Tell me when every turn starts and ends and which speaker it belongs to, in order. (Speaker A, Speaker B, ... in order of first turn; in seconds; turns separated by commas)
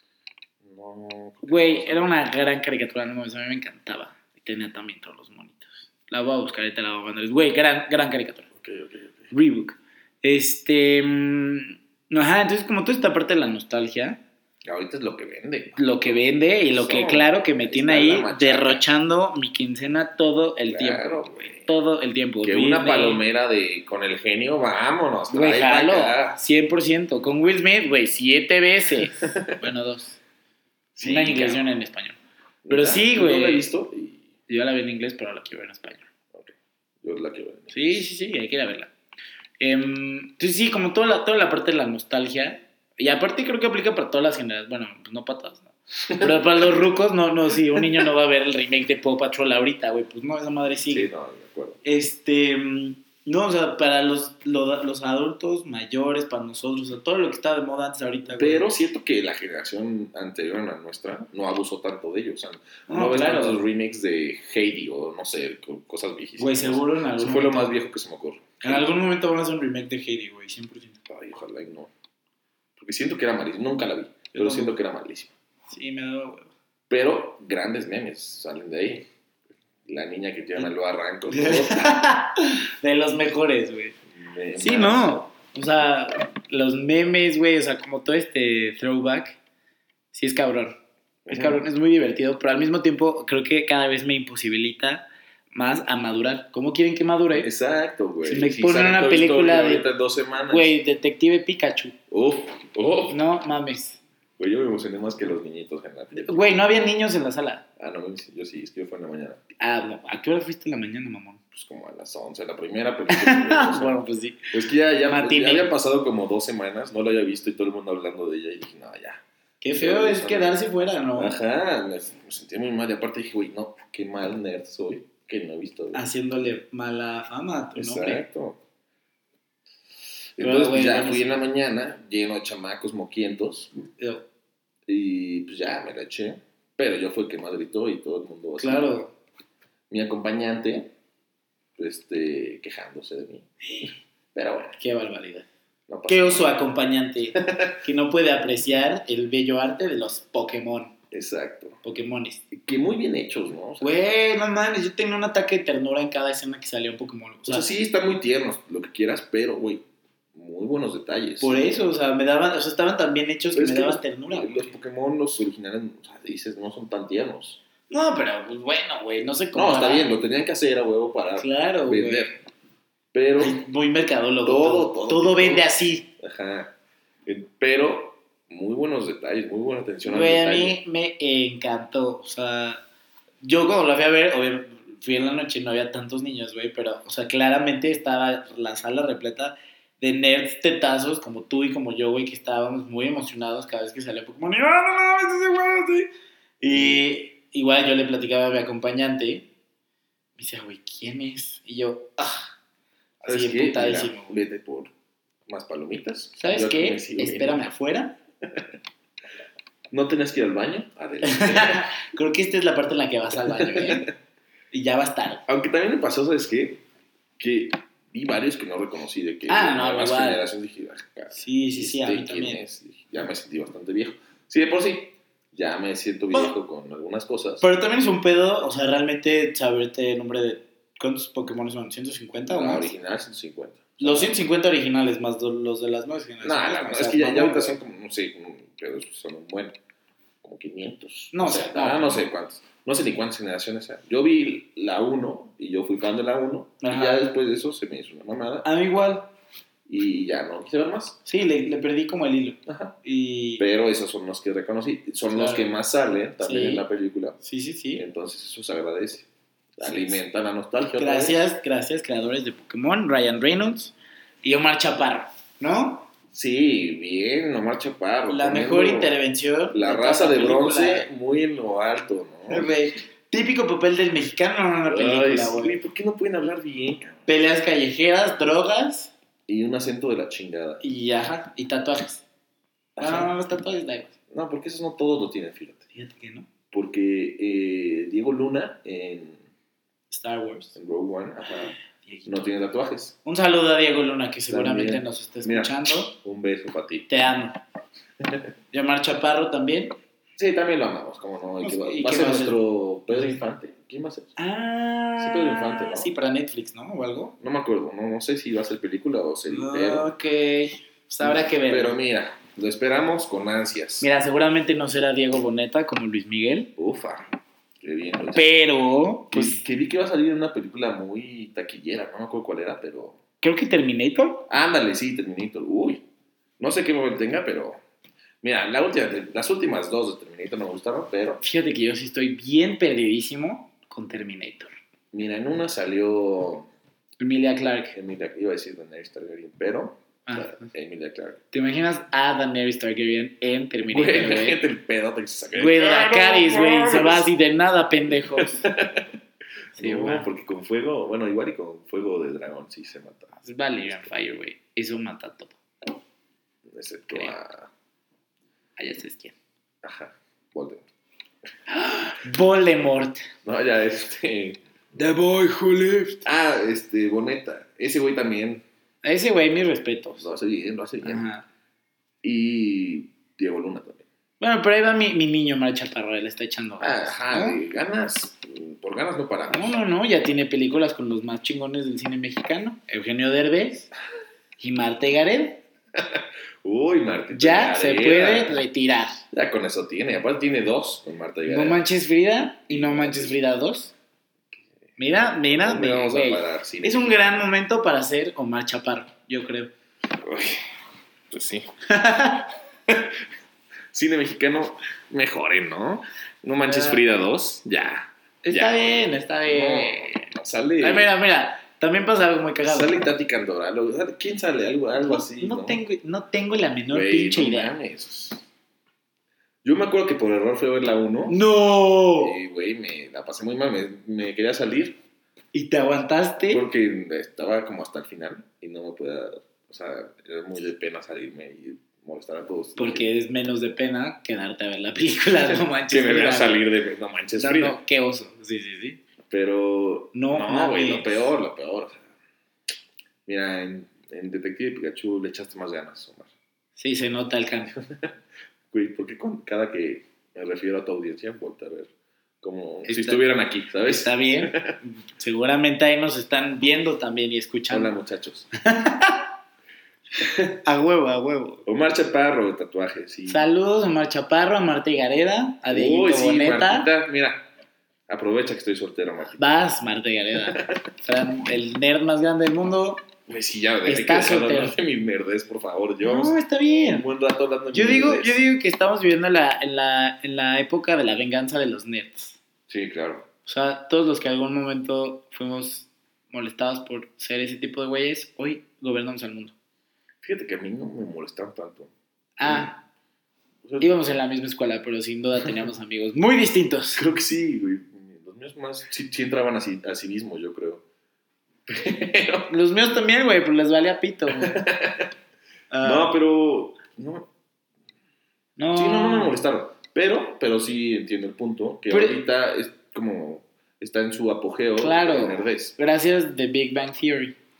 Speaker A: 0.6-2.2, Speaker B: 1.4-8.5, Speaker A: 8.5-9.3, Speaker B: 9.3-14.2, Speaker A: 14.7-18.8, Speaker B: 15.8-23.2, Speaker A: 20.7-21.7, Speaker A: 22.4-26.4, Speaker B: 25.3-30.2, Speaker A: 29.0-29.6, Speaker A: 31.0-31.7, Speaker B: 31.0-32.2, Speaker A: 32.6-34.2, Speaker B: 32.7-33.7, Speaker B: 34.5-36.1, Speaker A: 36.3-38.1, Speaker B: 37.7-38.9, Speaker B: 39.6-51.1, Speaker A: 46.0-47.0, Speaker A: 47.6-48.0, Speaker A: 50.9-51.8, Speaker B: 51.8-58.7, Speaker A: 58.3-68.9, Speaker B: 62.9-63.6, Speaker B: 66.4-67.7, Speaker B: 68.6-71.0, Speaker A: 71.1-71.9, Speaker A: 72.8-75.3, Speaker B: 74.3-74.7, Speaker B: 75.7-76.5, Speaker A: 76.9-79.1, Speaker A: 79.8-82.0, Speaker B: 81.3-84.0, Speaker A: 84.1-85.2, Speaker B: 84.6-89.4, Speaker B: 90.1-90.8, Speaker A: 91.3-91.6, Speaker B: 91.3-97.5, Speaker A: 97.3-100.8, Speaker B: 98.2-99.9, Speaker B: 100.5-102.0, Speaker A: 102.1-103.2, Speaker B: 103.1-104.0, Speaker A: 104.4-106.5, Speaker B: 106.1-107.7, Speaker A: 107.8-109.4, Speaker B: 109.6-111.4, Speaker A: 111.5-114.0, Speaker B: 113.1-114.5, Speaker A: 114.5-119.2, Speaker B: 115.1-115.7, Speaker B: 119.6-121.4, Speaker A: 119.8-120.6, Speaker A: 121.2-126.0, Speaker B: 125.9-128.2, Speaker A: 127.8-128.6, Speaker A: 130.4-133.8, Speaker B: 130.4-131.4, Speaker B: 134.0-134.2, Speaker A: 134.9-139.0, Speaker B: 138.6-139.1, Speaker A: 139.9-140.9, Speaker A: 141.8-144.8, Speaker B: 144.8-145.5, Speaker A: 145.9-146.6, Speaker B: 146.1-150.9, Speaker A: 147.4-147.8, Speaker A: 151.1-151.8, Speaker B: 151.8-152.4, Speaker A: 152.5-154.0, Speaker B: 153.8-157.7, Speaker A: 157.5-161.9, Speaker B: 161.4-164.7, Speaker A: 163.5-167.6, Speaker B: 167.9-170.2, Speaker A: 169.5-172.4, Speaker B: 171.4-172.3, Speaker A: 173.1-173.6, Speaker B: 173.4-176.1, Speaker A: 174.4-176.7, Speaker A: 177.3-180.8, Speaker B: 180.1-182.8, Speaker B: 183.4-199.5, Speaker A: 196.7-197.0, Speaker B: 200.4-202.5, Speaker B: 203.2-204.4, Speaker A: 203.2-204.9, Speaker A: 205.5-207.7, Speaker B: 206.4-208.2, Speaker A: 209.9-211.9, Speaker B: 211.2-214.1, Speaker A: 213.4-214.1, Speaker B: 214.7-215.4, Speaker A: 215.5-216.8, Speaker A: 217.4-227.7, Speaker B: 219.5-220.4, Speaker B: 221.3-222.6, Speaker B: 227.6-232.9, Speaker A: 232.5-234.4, Speaker B: 234.0-237.8, Speaker A: 236.4-239.8, Speaker A: 240.4-248.7, Speaker B: 241.3-242.2, Speaker B: 246.8-247.3, Speaker B: 248.6-249.3, Speaker A: 249.9-251.2, Speaker B: 251.3-253.6, Speaker A: 252.7-253.0, Speaker A: 253.6-257.4, Speaker B: 255.3-255.7, Speaker B: 256.4-256.9, Speaker B: 257.4-258.0, Speaker A: 257.9-261.5, Speaker B: 259.8-260.2, Speaker B: 261.0-266.1, Speaker A: 266.3-269.1, Speaker B: 268.3-271.1, Speaker A: 269.7-272.7, Speaker B: 272.5-275.8, Speaker A: 274.9-277.3, Speaker B: 277.3-279.1, Speaker A: 279.5-280.8, Speaker B: 280.8-282.2, Speaker A: 283.0-283.4, Speaker B: 283.0-284.1, Speaker A: 284.3-285.9, Speaker B: 285.9-286.5, Speaker A: 286.7-289.4, Speaker B: 290.1-290.8, Speaker A: 290.8-293.2, Speaker B: 291.9-292.4, Speaker B: 293.2-296.1, Speaker A: 294.5-297.2, Speaker B: 297.1-297.6, Speaker B: 298.7-300.0, Speaker A: 300.4-304.4, Speaker B: 301.6-302.6, Speaker B: 303.1-303.4, Speaker B: 304.4-307.3, Speaker A: 305.2-306.1, Speaker A: 307.4-310.1, Speaker B: 309.5-312.0, Speaker A: 311.2-314.1, Speaker B: 314.0-316.7, Speaker A: 316.8-317.2, Speaker A: 317.8-318.5, Speaker B: 318.3-319.6, Speaker A: 319.3-323.2, Speaker B: 323.4-324.5, Speaker A: 324.5-326.0, Speaker A: 326.6-327.8, Speaker A: 328.4-331.4, Speaker B: 331.4-334.7, Speaker A: 335.1-336.7, Speaker B: 337.2-338.0, Speaker A: 337.9-341.4, Speaker B: 340.3-340.7, Speaker B: 341.5-344.6, Speaker A: 343.9-347.3, Speaker B: 345.6-348.6, Speaker A: 348.1-349.1, Speaker A: 349.8-354.1, Speaker B: 349.8-350.3, Speaker B: 353.4-355.6, Speaker A: 356.7-357.7, Speaker B: 358.8-359.4, Speaker A: 359.8-360.9, Speaker B: 361.7-363.3, Speaker A: 363.4-364.6, Speaker B: 364.9-366.2, Speaker A: 366.2-368.6, Speaker B: 369.0-370.3, Speaker A: 370.2-371.3, Speaker B: 371.0-371.4, Speaker A: 372.2-374.1, Speaker B: 374.4-377.6, Speaker A: 376.8-379.7, Speaker B: 379.5-383.9, Speaker B: 384.6-385.6, Speaker A: 386.0-388.6, Speaker B: 387.3-389.2, Speaker A: 389.3-391.8, Speaker B: 391.5-393.9, Speaker A: 392.7-393.4, Speaker B: 395.0-399.7, Speaker A: 395.5-397.5, Speaker A: 400.2-400.7, Speaker A: 401.3-401.7, Speaker B: 401.9-402.5, Speaker A: 402.9-403.2, Speaker A: 403.9-411.1, Speaker B: 406.6-407.0, Speaker B: 408.4-410.2, Speaker B: 410.8-413.0, Speaker A: 412.6-415.8, Speaker B: 415.0-417.7, Speaker A: 416.9-418.4, Speaker A: 419.6-421.4, Speaker B: 421.3-422.4, Speaker A: 422.2-425.0, Speaker B: 425.5-426.6, Speaker A: 426.4-433.1, Speaker B: 432.8-436.6, Speaker A: 435.5-437.8, Speaker B: 437.4-439.0, Speaker A: 439.3-442.1, Speaker B: 440.1-441.3, Speaker A: 443.3-446.3, Speaker B: 446.8-447.7, Speaker A: 447.8-448.1, Speaker A: 448.7-451.9, Speaker A: 452.4-454.8, Speaker B: 452.9-453.2, Speaker B: 453.8-457.9, Speaker A: 457.7-458.5, Speaker B: 458.6-459.3, Speaker B: 460.2-461.6, Speaker A: 461.6-463.5, Speaker B: 463.3-466.9, Speaker A: 465.7-467.4, Speaker A: 468.1-469.4, Speaker B: 469.4-473.0, Speaker A: 470.5-470.8, Speaker A: 473.3-478.4, Speaker B: 473.9-474.8, Speaker B: 476.0-477.1, Speaker B: 477.7-482.4, Speaker A: 482.7-483.3, Speaker B: 483.5-489.5, Speaker A: 490.2-491.9, Speaker B: 492.4-492.8, Speaker A: 492.4-492.7, Speaker A: 493.6-494.0, Speaker B: 493.8-497.0, Speaker A: 496.9-500.8, Speaker A: 501.7-502.5, Speaker B: 502.5-504.6, Speaker A: 504.4-505.1, Speaker B: 505.7-506.1, Speaker A: 505.8-507.3, Speaker B: 508.6-509.4, Speaker A: 508.7-515.7, Speaker B: 511.9-512.2, Speaker B: 514.8-517.4